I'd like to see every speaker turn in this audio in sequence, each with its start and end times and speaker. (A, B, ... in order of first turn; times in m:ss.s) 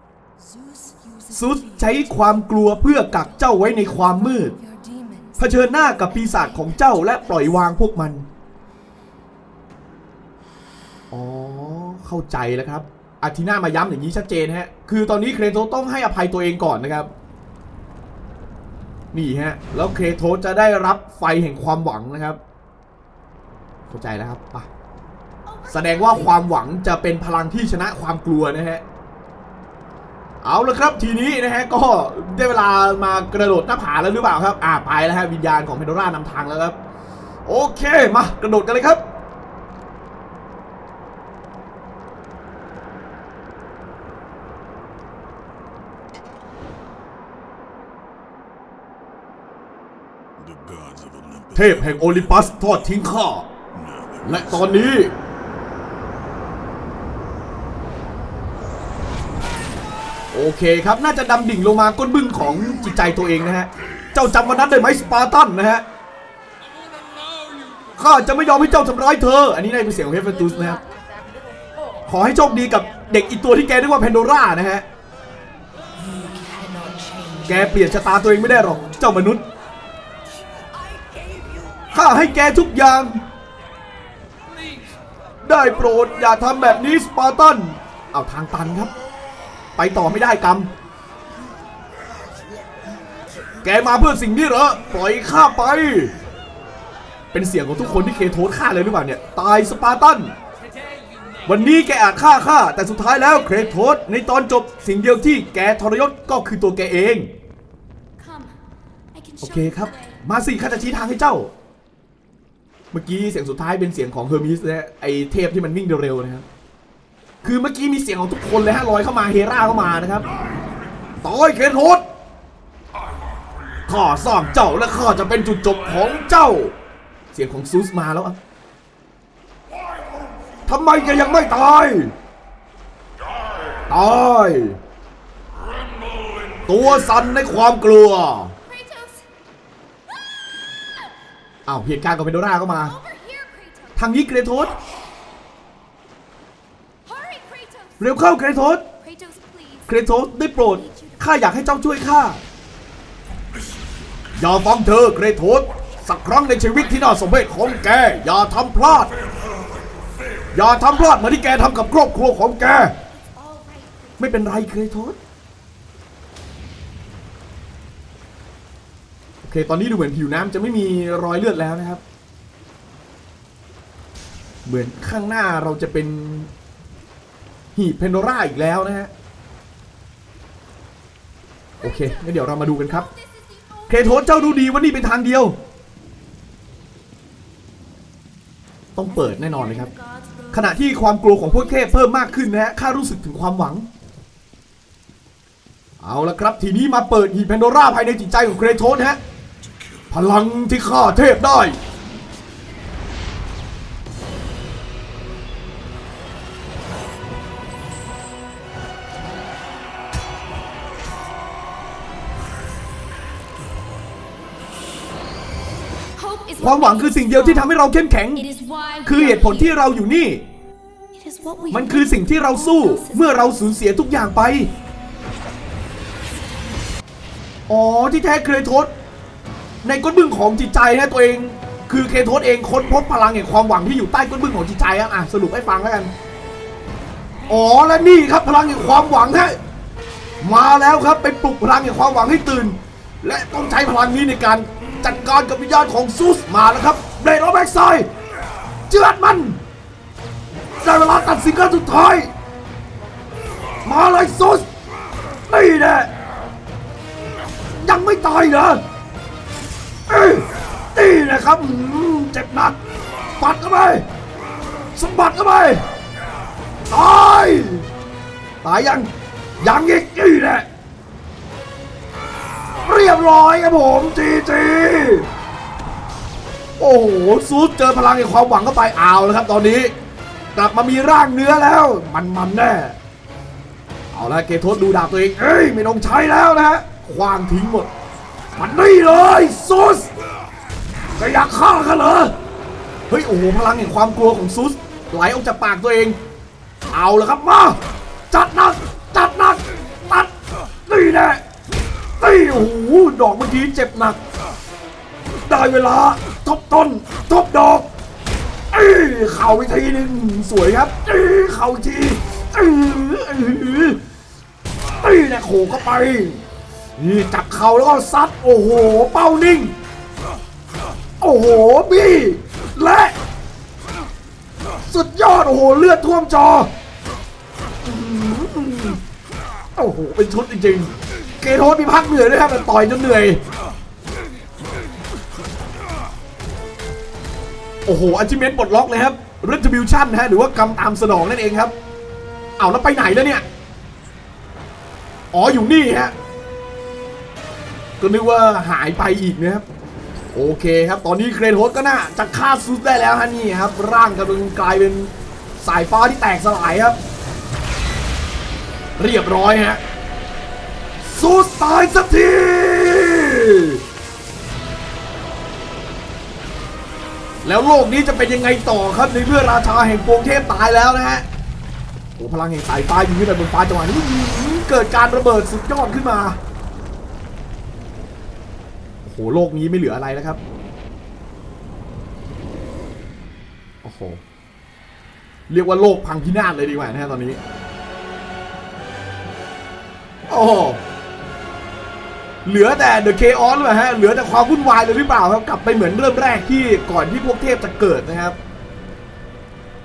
0:00.4-0:07.6 A
0:01.3-0:04.5 B
0:05.4-0:08.2 B
0:11.1-0:17.1 B
0:19.1-0:22.4 B
0:23.9-0:24.7 B
0:25.4-0:26.5 C
0:25.7-0:28.8 B
0:30.4-0:36.7 B
0:37.4-0:39.0 B
0:50.4-0:52.7 D
0:51.5-0:53.5 B
0:53.7-0:54.9 D
0:54.2-0:55.1 B
1:00.3-1:05.8 B
1:08.0-1:10.8 B
1:10.4-1:11.6 A
1:12.0-1:14.8 B
1:16.0-1:18.7 A
1:17.5-1:19.4 B
1:20.4-1:21.9 A
1:21.9-1:23.2 B
1:25.4-1:28.9 B
1:29.8-1:30.7 B
1:33.6-1:36.1 B
1:37.3-1:40.3 B
1:41.4-1:47.3 B
1:48.2-1:48.6 C
1:49.1-1:50.2 C
1:49.4-1:51.5 B
1:52.9-1:56.4 B
1:57.4-2:00.3 B
2:01.2-2:02.0 B
2:03.9-2:06.7 B
2:07.3-2:08.4 B
2:10.7-2:12.1 B
2:13.9-2:14.8 B
2:15.9-2:16.6 D
2:16.6-2:18.5 B
2:18.6-2:19.2 C
2:20.3-2:21.1 C
2:21.7-2:22.9 B
2:22.8-2:24.6 C
2:24.0-2:24.7 B
2:27.0-2:31.6 C
2:28.0-2:28.8 B
2:29.9-2:32.4 B
2:34.4-2:39.1 B
2:40.5-2:42.9 B
2:43.1-2:44.6 C
2:44.2-2:45.2 B
2:49.4-2:52.0 B
2:54.6-2:56.5 B
2:57.7-2:59.1 B
3:01.8-3:04.8 C
3:01.8-3:03.1 B
3:03.9-3:05.6 B
3:09.0-3:09.9 B
3:09.1-3:11.2 A
3:10.5-3:13.9 B
3:16.0-3:19.2 B
3:19.6-3:20.1 D
3:20.1-3:21.8 B
3:36.1-3:37.7 C
3:36.6-3:38.4 B
3:38.3-3:39.8 C
3:39.0-3:40.4 B
3:41.1-3:43.6 C
3:41.7-3:44.7 B
3:47.7-3:48.9 B
3:49.8-3:56.1 B
3:57.5-3:59.6 B
4:00.4-4:08.1 B
4:08.9-4:09.6 B
4:10.8-4:12.3 B
4:13.8-4:14.7 B
4:15.5-4:16.1 B
4:17.7-4:18.8 B
4:20.1-4:22.8 B
4:23.4-4:24.0 B
4:25.0-4:25.8 B
4:26.9-4:27.8 B
4:28.6-4:29.1 B
4:29.6-4:30.6 B
4:32.8-4:35.3 B
4:36.8-4:39.9 B
4:40.5-4:43.0 B
4:44.1-4:47.9 B
4:48.6-4:50.1 B
4:51.2-4:52.3 B
4:53.1-4:56.2 B
4:56.9-5:00.3 B
5:00.8-5:01.4 B
5:02.2-5:04.2 B
5:05.4-5:07.9 B
5:08.7-5:14.0 B
5:15.0-5:16.4 B
5:17.0-5:19.7 B
5:21.2-5:23.2 B
5:24.9-5:26.7 B
5:27.8-5:29.0 B
5:29.8-5:33.4 B
5:37.8-5:41.7 B
5:42.6-5:43.4 B
5:45.3-5:46.1 B
5:48.0-5:49.6 B
5:50.3-5:57.0 B
5:59.0-5:59.8 B
6:01.0-6:03.8 B
6:07.4-6:11.2 B
6:12.2-6:16.4 B
6:19.0-6:20.4 B
6:23.8-6:24.2 B
6:25.5-6:27.4 B
6:30.3-6:30.8 B
6:32.4-6:38.4 B